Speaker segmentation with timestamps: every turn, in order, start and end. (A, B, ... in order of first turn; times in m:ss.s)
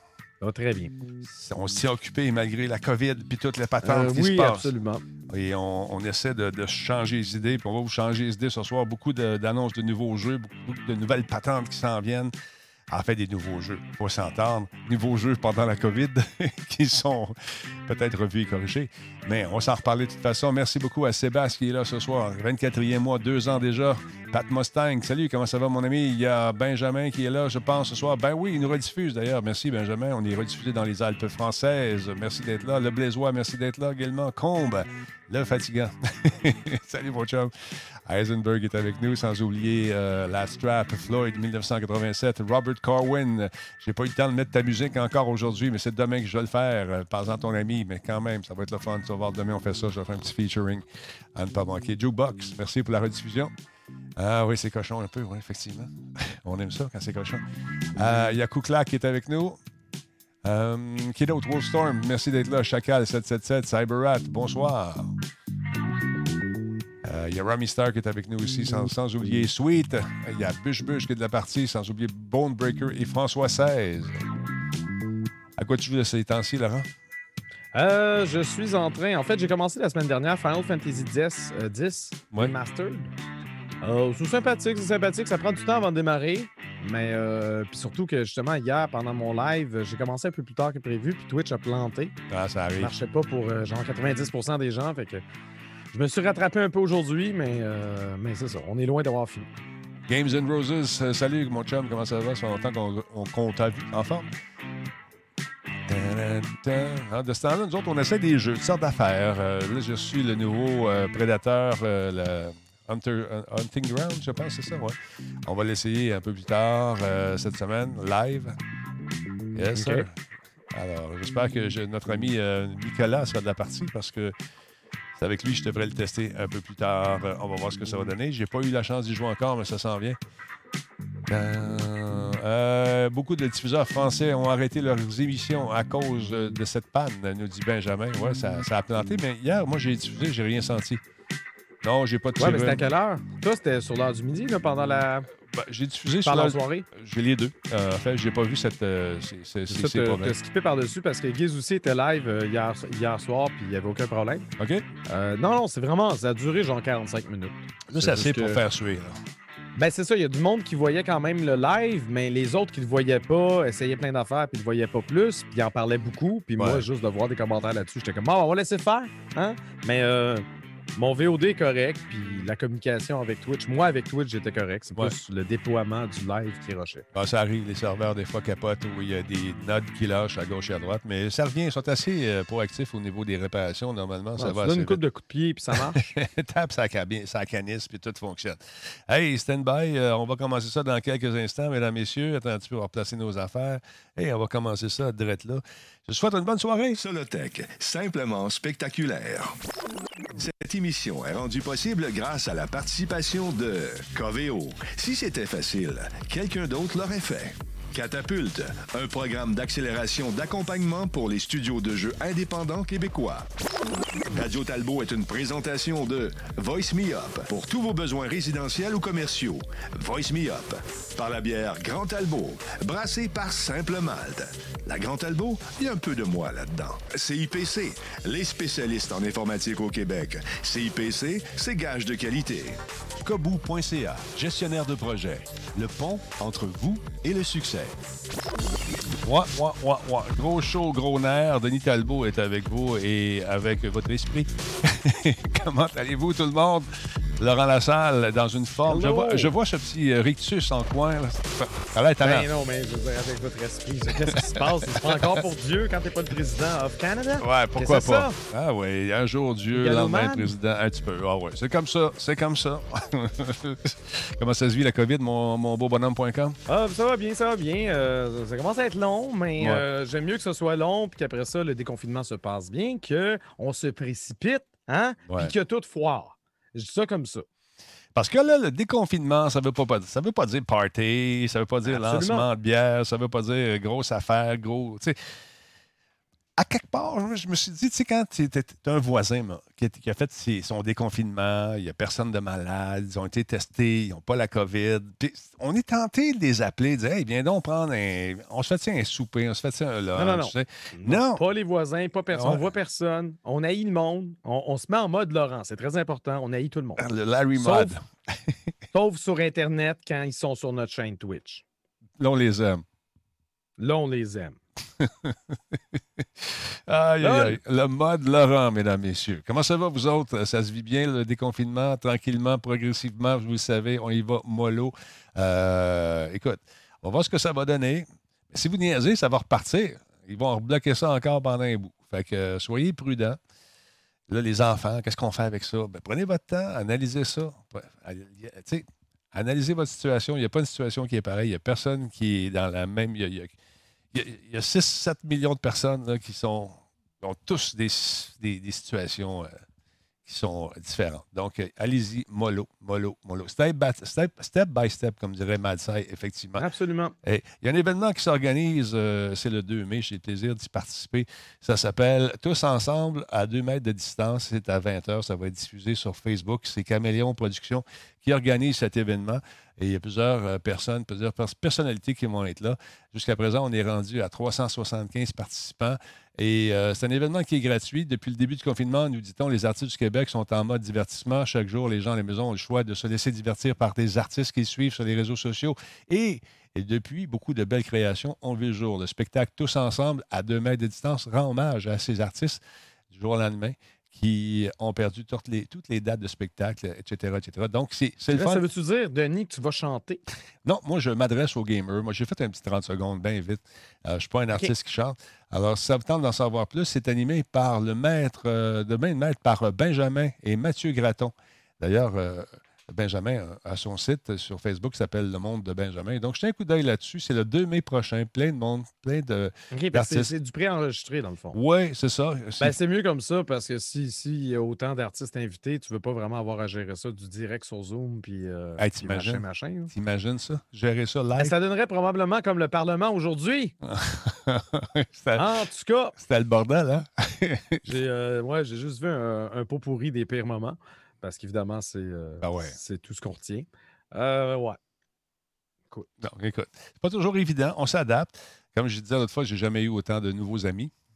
0:00.4-0:00.9 A
0:01.2-0:04.7 B
0:03.8-0:05.1 A
0:05.3-0:12.3 B
0:12.9-0:53.5 B
0:54.2-0:57.4 B
0:58.0-0:59.6 B
1:00.4-1:05.2 B
1:07.0-1:14.2 B
1:15.6-1:16.9 B
1:17.7-1:23.1 A
1:23.8-1:32.2 A
1:32.3-1:32.9 B
1:32.8-1:35.2 A
1:35.9-1:39.5 A
1:40.1-1:44.3 B
1:45.9-1:58.6 B
1:59.6-2:00.2 B
1:59.6-2:00.0 A
2:00.7-2:04.3 B
2:05.2-2:10.2 B
2:11.3-2:21.0 B
2:21.8-2:22.8 B
2:22.4-2:25.3 A
2:25.5-2:30.4 B
2:26.2-2:26.9 A
2:29.7-2:34.5 A
2:34.6-2:34.9 B
2:35.1-2:38.6 A
2:37.9-2:39.2 B
2:39.8-2:57.1 A
2:46.6-2:46.8 B
2:57.1-3:05.0 B
3:04.4-3:06.1 A
3:05.7-3:17.0 B
3:17.0-3:19.6 C
3:20.3-3:33.5 C
3:34.2-3:58.0 C
3:59.2-4:12.5 B
4:08.9-4:09.5 A
4:12.2-4:18.4 A
4:14.3-4:15.4 B
4:17.4-4:26.6 B
4:19.7-4:20.5 A
4:26.7-4:37.4 A
4:29.6-4:29.8 B
4:35.3-4:35.5 B
4:38.1-4:45.2 B
4:41.8-4:42.5 A
4:46.6-5:01.4 B
5:00.2-5:08.0 A
5:02.3-5:02.6 B
5:07.0-5:08.5 B
5:08.9-5:11.6 A
5:12.2-5:12.8 B
5:13.8-5:14.6 A
5:15.0-5:33.4 B
5:17.2-5:17.6 A
5:34.3-5:43.6 B
5:44.1-5:49.6 B
5:50.2-5:56.6 B
5:56.6-5:57.2 A
5:57.2-6:38.6 B
6:38.3-6:40.2 A
6:40.6-7:00.3 B
6:59.7-7:01.6 A
7:01.5-7:02.8 B
7:02.6-7:09.9 A
7:08.8-7:11.6 B
7:11.4-7:13.7 A
7:13.8-7:15.5 B
7:15.4-7:16.2 A
7:16.2-7:17.8 B
7:17.8-7:24.8 A
7:22.4-7:22.8 B
7:26.2-7:30.9 B